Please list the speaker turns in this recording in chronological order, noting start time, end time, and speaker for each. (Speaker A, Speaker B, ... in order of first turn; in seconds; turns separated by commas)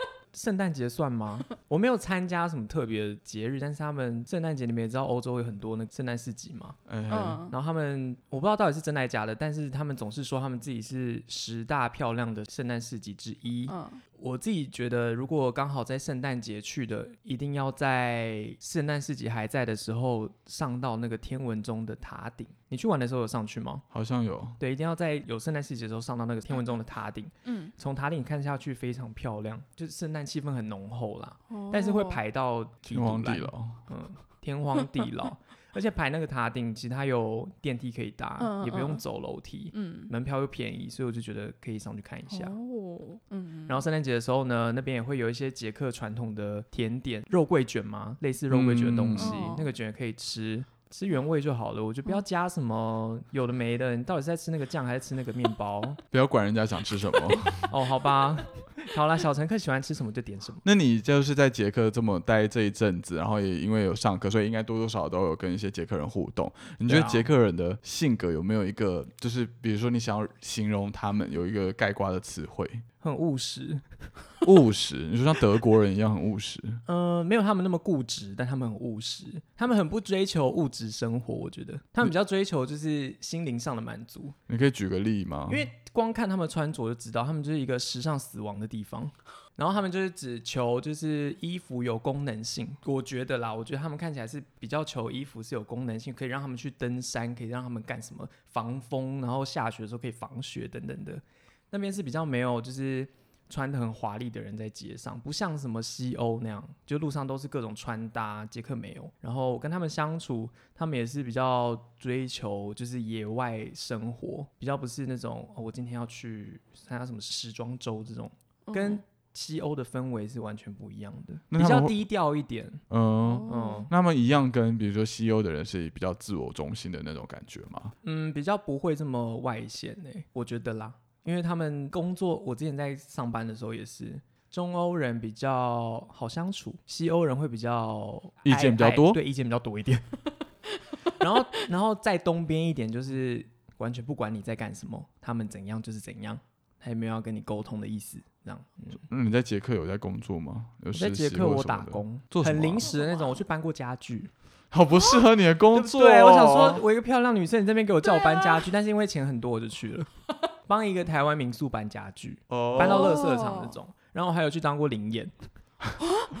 Speaker A: 0.3-6.8, Speaker B: 6.9-7.5, Speaker C: 7.1-7.5, Speaker A: 7.5-23.8, Speaker C: 13.7-14.0, Speaker B: 23.9-24.6, Speaker A: 24.6-42.5, Speaker C: 27.4-27.7, Speaker C: 31.5-32.2, Speaker B: 32.9-33.8, Speaker C: 38.4-39.0, Speaker C: 39.7-40.1, Speaker C: 42.3-43.8, Speaker A: 43.7-56.0, Speaker B: 48.5-49.5, Speaker C: 49.2-49.7, Speaker B: 56.1-57.6, Speaker A: 57.7-60.6, Speaker B: 60.6-72.8, Speaker A: 66.9-67.3, Speaker A: 73.0-73.8, Speaker B: 74.4-76.8, Speaker A: 76.8-84.3, Speaker B: 84.5-85.7, Speaker A: 85.5-122.8, Speaker C: 118.7-119.0, Speaker B: 121.5-122.0, Speaker B: 122.9-127.9, Speaker C: 123.2-123.9, Speaker A: 123.5-123.9, Speaker A: 128.0-140.1, Speaker B: 138.4-139.2, Speaker A: 141.1-149.0, Speaker B: 149.1-152.9, Speaker A: 150.9-154.3, Speaker C: 153.0-153.2, Speaker B: 154.7-156.8, Speaker A: 155.7-160.1, Speaker C: 158.2-158.6, Speaker A: 160.7-165.3, Speaker B: 162.5-163.2, Speaker C: 162.8-163.8